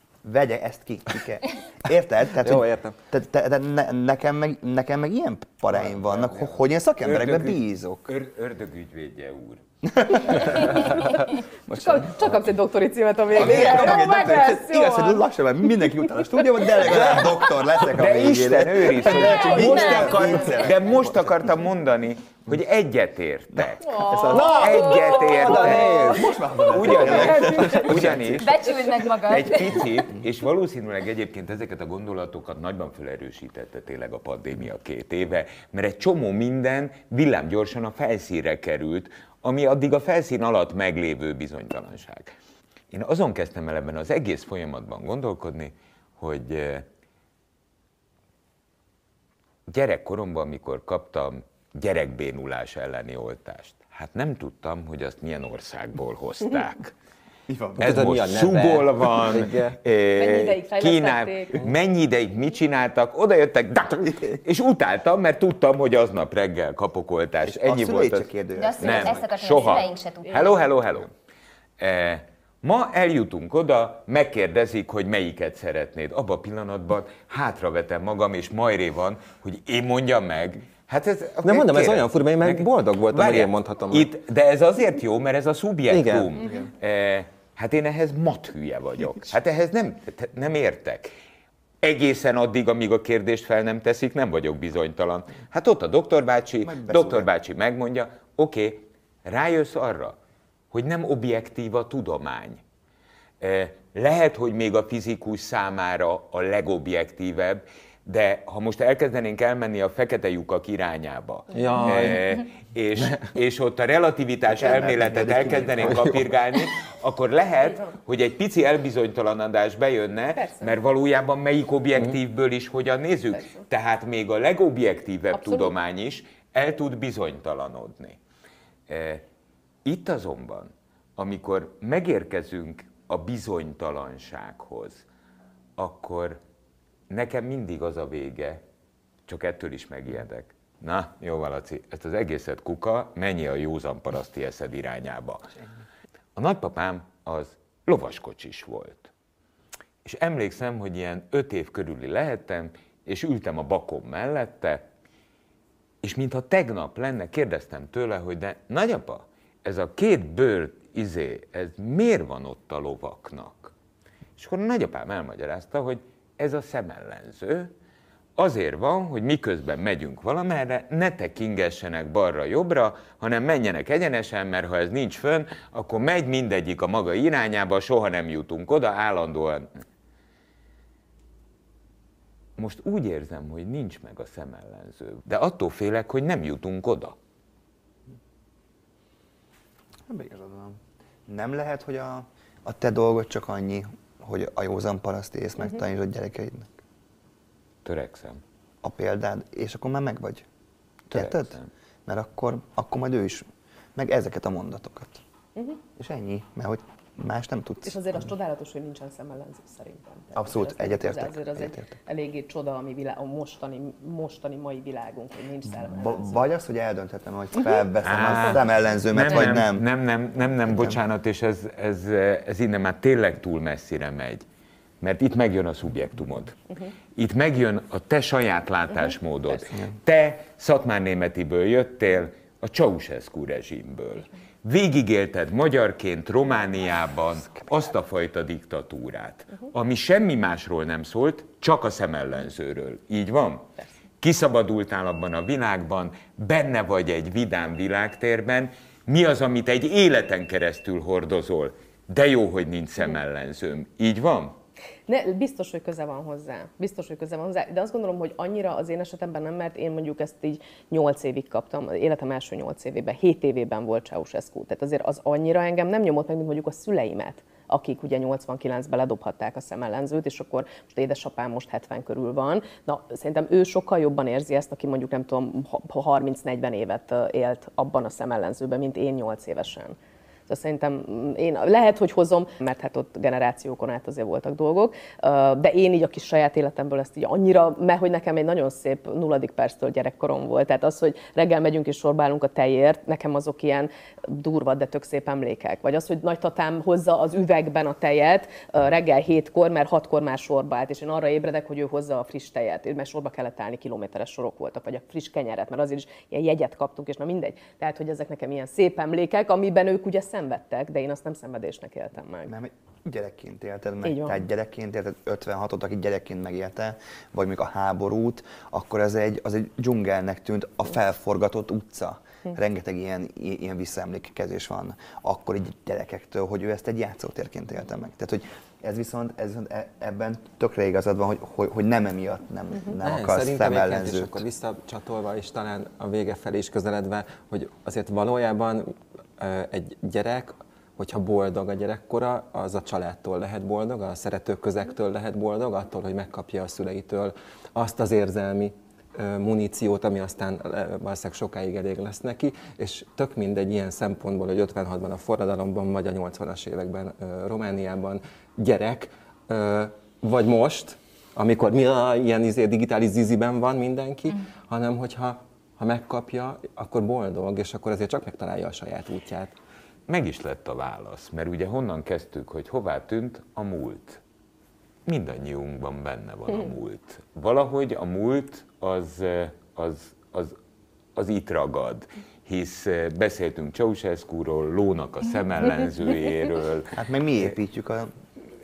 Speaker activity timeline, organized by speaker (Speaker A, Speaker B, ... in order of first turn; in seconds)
Speaker A: 0.2-8.1, 9.8-11.1, 11.7-12.4, 13.3-21.5, 23.5-28.6, 57.5-58.1, 67.4-69.6, 86.4-86.7, 96.6-97.3, 114.5-116.2, 190.1-196.8, 198.8-200.4, 201.1-205.2, 205.9-208.3, 210.3-211.8, 215.7-219.9, 220.7-221.0, 312.4-334.4, 386.9-388.1
Speaker B: 2.4-3.0, 24.3-26.4, 57.8-59.8, 81.4-84.1, 85.9-86.3, 111.5-112.3, 333.0-369.5
Speaker C: 7.0-9.6, 17.9-28.7, 29.2-42.3, 42.9-46.9, 49.7-56.9, 57.8-71.1, 71.8-91.1, 91.8-100.2, 100.7-102.6, 103.4-128.2, 128.9-129.2, 129.8-135.1, 135.8-136.4, 137.1-138.6, 139.3-145.5, 146.3-149.1, 150.0-154.8, 156.0-163.7, 164.4-167.7, 168.4-179.8, 182.6-187.2, 197.8-198.4, 201.1-201.7, 218.0-224.4, 225.0-226.6, 227.1-254.6, 370.1-374.2, 375.1-380.6, 381.1-386.9
Speaker D: 10.7-15.2, 19.3-20.2, 23.8-26.1, 60.1-61.6, 120.3-120.8, 125.3-125.7, 207.8-216.4, 255.1-279.9, 280.5-312.5, 314.0-314.4
Speaker E: 19.5-20.2, 28.2-29.9, 68.5-70.6